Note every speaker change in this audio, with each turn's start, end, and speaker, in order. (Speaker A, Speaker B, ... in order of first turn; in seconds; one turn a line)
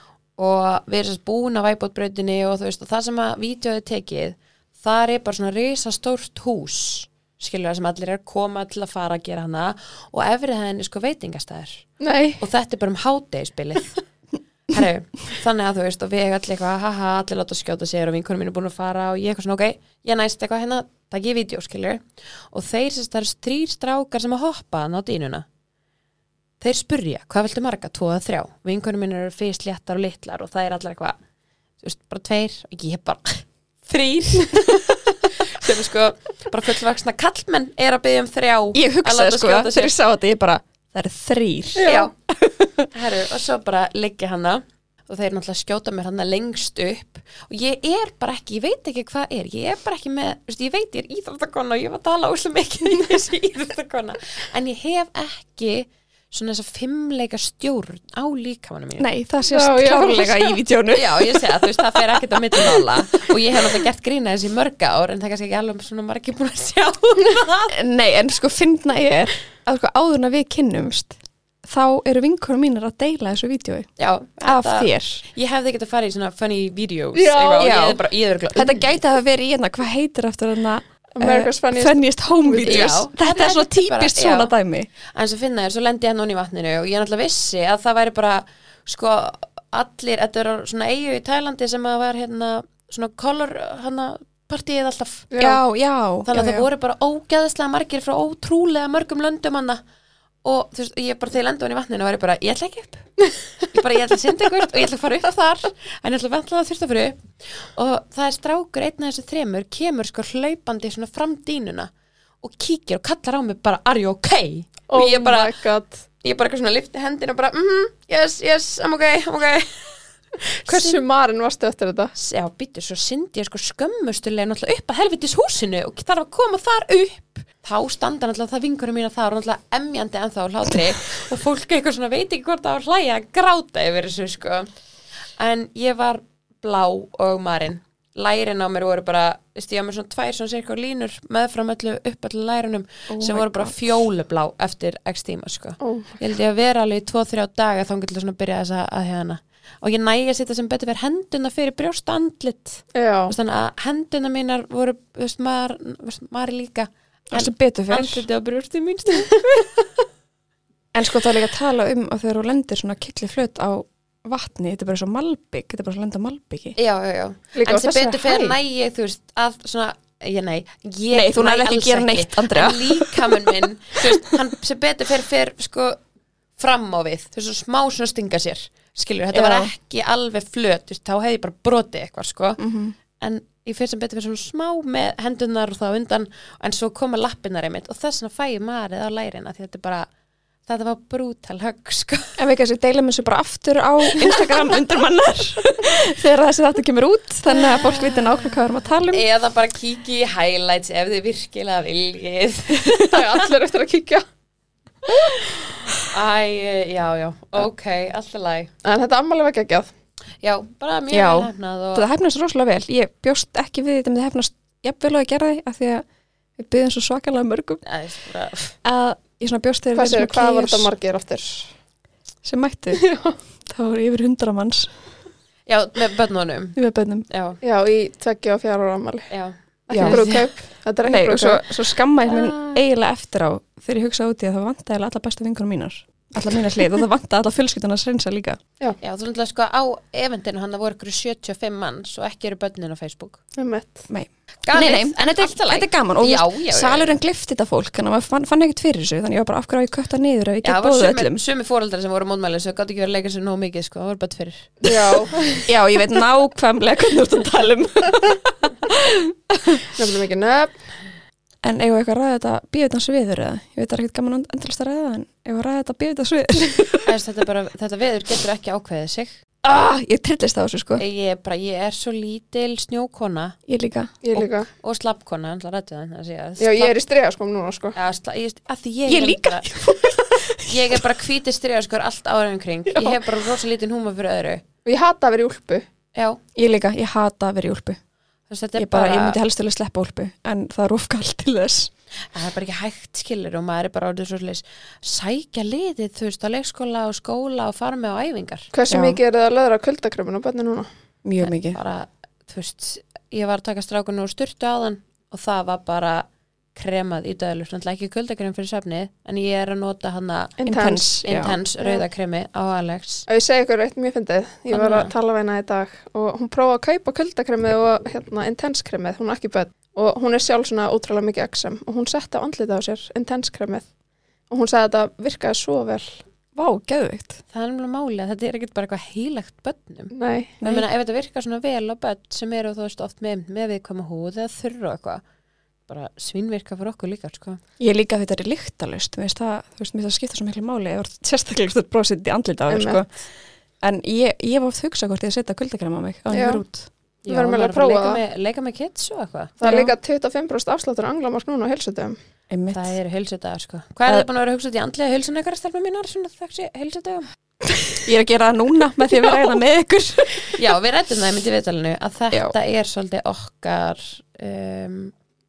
Speaker A: 0.4-11.8
Speaker B: 12.0-12.4
Speaker A: 12.4-13.9
Speaker A: 14.7-25.4
Speaker A: 26.6-31.1
Speaker A: 31.8-34.7
Speaker A: 35.4-39.9
Speaker C: 38.7-42.9
Speaker B: 41.8-42.1
Speaker A: 41.8-42.1
Speaker A: 42.9-59.1
Speaker C: 59.0-62.9
Speaker B: 59.5-60.5
Speaker A: 60.9-67.7
Speaker C: 67.7-73.9
Speaker A: 74.0-78.9
Speaker C: 74.4-75.2
Speaker B: 77.1-77.7
Speaker C: 77.6-84.9
Speaker B: 81.2-83.0
Speaker A: 82.6-84.5
Speaker A: 85.1-95.3
Speaker B: 95.3-95.6
Speaker C: 95.4-96.6
Speaker A: 96.2-99.8
Speaker A: 100.4-103.0
Speaker A: 103.7-115.5
Speaker B: 114.9-116.0
Speaker A: 116.2-119.9
Speaker A: 120.6-121.0
Speaker B: 120.6-122.1
Speaker A: 122.1-134.7
Speaker A: 135.3-159.4
Speaker C: 143.1-143.8
Speaker B: 145.8-146.1
Speaker B: 152.9-153.3
Speaker C: 157.3-158.2
Speaker C: 160.9-166.8
Speaker A: 166.8-176.0
Speaker B: 167.5-168.6
Speaker C: 171.1-174.3
Speaker A: 176.6-182.6
Speaker C: 179.3-179.7
Speaker C: 182.6-182.9
Speaker A: 183.2-190.1
Speaker A: 190.7-192.4
Speaker C: 192.4-199.2
Speaker A: 197.5-198.6
Speaker A: 199.1-203.3
Speaker B: 203.0-204.2
Speaker A: 206.1-208.7
Speaker B: 208.8-209.9
Speaker A: 210.4-212.1
Speaker C: 211.1-216.1
Speaker C: 216.6-217.8
Speaker A: 217.8-218.7
Speaker C: 218.8-220.9
Speaker B: 219.9-221.7
Speaker C: 222.4-223.0
Speaker B: 222.9-223.3
Speaker C: 223.7-224.9
Speaker A: 225.7-226.8
Speaker C: 226.8-227.3
Speaker A: 227.3-227.6
Speaker B: 227.6-229.3
Speaker A: 229.3-230.5
Speaker B: 229.9-231.8
Speaker C: 229.9-230.2
Speaker C: 231.0-238.6
Speaker A: 232.3-232.7
Speaker A: 239.0-243.4
Speaker B: 243.6-244.1
Speaker C: 244.1-251.4
Speaker A: 244.7-247.1
Speaker A: 250.6-254.8
Speaker B: 254.8-255.4
Speaker C: 255.7-260.0
Speaker B: 259.9-260.7
Speaker C: 261.6-267.1
Speaker A: 267.1-269.3
Speaker C: 269.6-271.0
Speaker A: 271.0-273.6
Speaker C: 273.7-274.1
Speaker B: 274.2-274.7
Speaker A: 274.3-276.9
Speaker B: 276.6-277.9
Speaker A: 277.9-279.7
Speaker C: 279.1-281.1
Speaker A: 280.6-284.6
Speaker B: 284.8-285.8
Speaker A: 286.1-286.4
Speaker C: 286.5-288.0
Speaker A: 288.5-289.4
Speaker C: 288.8-291.9
Speaker A: 292.3-298.7
Speaker B: 298.7-300.9
Speaker C: 298.9-299.2
Speaker C: 301.2-301.8
Speaker A: 301.4-310.5
Speaker B: 310.6-311.1
Speaker C: 310.6-311.6
Speaker A: 311.2-313.2
Speaker B: 313.3-323.9
Speaker A: 314.7-315.1
Speaker B: 324.5-326.2
Speaker C: 326.5-327.4
Speaker A: 327.5-330.1
Speaker B: 330.1-330.6
Speaker C: 330.6-330.9
Speaker A: 330.6-335.2
Speaker A: 335.9-337.6
Speaker C: 337.8-343.1
Speaker B: 342.7-343.0
Speaker C: 343.8-346.9
Speaker B: 346.3-346.6
Speaker A: 347.2-349.6
Speaker B: 347.3-348.2
Speaker B: 349.6-352.1
Speaker C: 349.6-349.9
Speaker C: 352.5-353.0
Speaker A: 352.7-357.2
Speaker C: 358.0-360.6
Speaker A: 360.5-365.1